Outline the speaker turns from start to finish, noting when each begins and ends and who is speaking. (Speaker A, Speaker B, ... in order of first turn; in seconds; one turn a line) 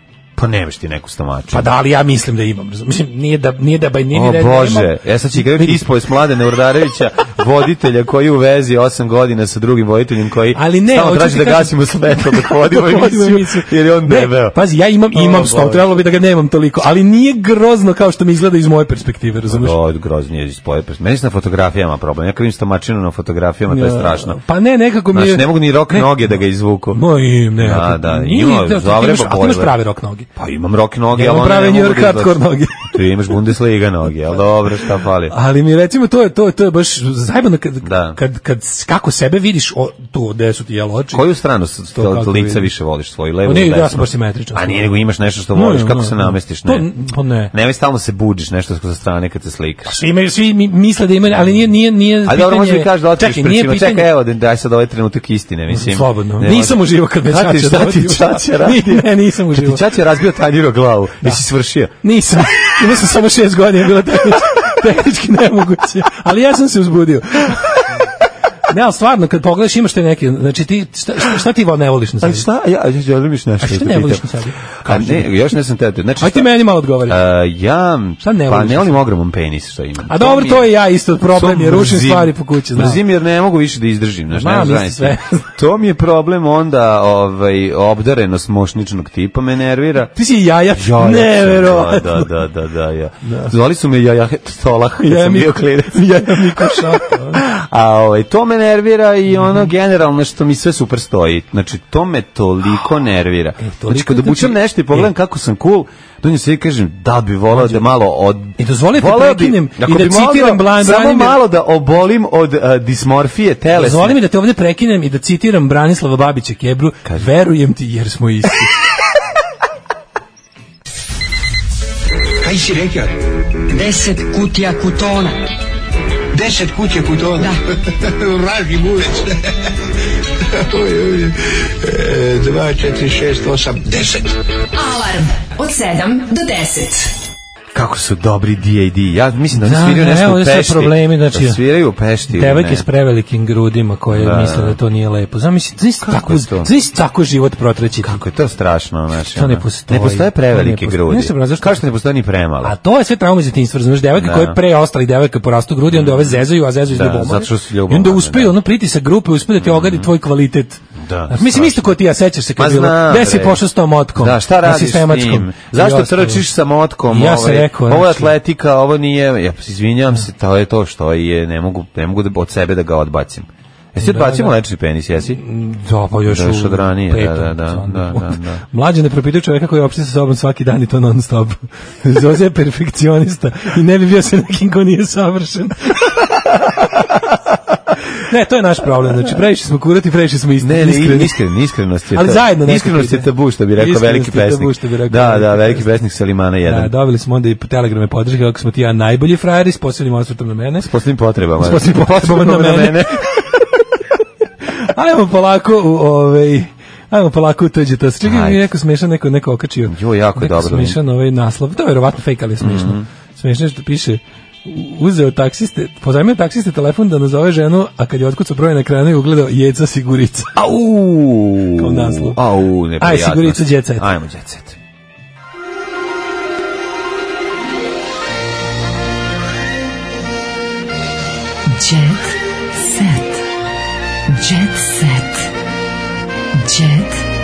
Speaker A: 0.4-1.7
Speaker B: 1.5-5.8
Speaker A: 4.1-14.6
Speaker B: 10.6-19.8
Speaker A: 15.1-15.9
Speaker A: 19.5-24.4
Speaker B: 23.7-26.4
Speaker A: 25.1-27.0
Speaker B: 26.9-30.3
Speaker A: 27.6-29.8
Speaker A: 30.4-35.3
Speaker B: 31.1-33.0
Speaker B: 35.3-41.2
Speaker A: 37.8-38.2
Speaker A: 41.1-46.9
Speaker B: 41.9-42.7
Speaker B: 43.4-44.9
Speaker B: 45.5-47.5
Speaker A: 47.5-50.0
Speaker B: 49.9-54.1
Speaker A: 52.2-61.9
Speaker B: 55.7-59.8
Speaker B: 62.0-68.0
Speaker B: 68.7-72.5
Speaker A: 72.2-74.3
Speaker B: 73.6-75.3
Speaker A: 74.8-80.7
Speaker B: 76.2-77.2
Speaker B: 78.2-79.0
Speaker B: 80.1-83.0
Speaker A: 81.3-90.1
Speaker B: 84.3-85.5
Speaker B: 90.2-92.3
Speaker A: 90.7-114.2
Speaker B: 93.2-93.5
Speaker B: 95.0-97.4
Speaker B: 99.4-99.7
Speaker B: 103.6-105.1
Speaker B: 107.5-107.8
Speaker B: 108.6-111.4
Speaker B: 113.7-118.7
Speaker C: 122.4-123.2
Speaker C: 123.7-125.3
Speaker C: 126.3-129.4
Speaker C: 130.6-134.4
Speaker D: 134.8-137.1
Speaker A: 137.7-142.9
Speaker B: 139.5-141.6
Speaker B: 142.3-148.2
Speaker A: 144.1-144.8
Speaker A: 146.0-146.7
Speaker A: 148.0-152.8
Speaker B: 149.3-151.8
Speaker B: 152.6-166.4
Speaker A: 154.2-154.6
Speaker A: 155.9-158.6
Speaker A: 159.6-160.1
Speaker A: 161.0-162.0
Speaker A: 162.6-163.6
Speaker A: 164.2-175.4
Speaker B: 167.1-168.3
Speaker B: 174.0-174.5
Speaker B: 175.2-186.3
Speaker A: 176.3-178.6
Speaker B: 188.1-191.4
Speaker A: 190.6-196.9
Speaker B: 192.1-195.9
Speaker B: 196.7-200.9
Speaker A: 200.8-203.5
Speaker B: 201.6-203.6
Speaker B: 204.7-220.5
Speaker A: 208.2-208.7
Speaker A: 209.9-211.0
Speaker A: 212.6-213.1
Speaker A: 220.6-224.8
Speaker B: 221.8-222.4
Speaker B: 223.0-224.1
Speaker B: 231.7-233.3
Speaker B: 234.3-235.3
Speaker B: 236.6-237.2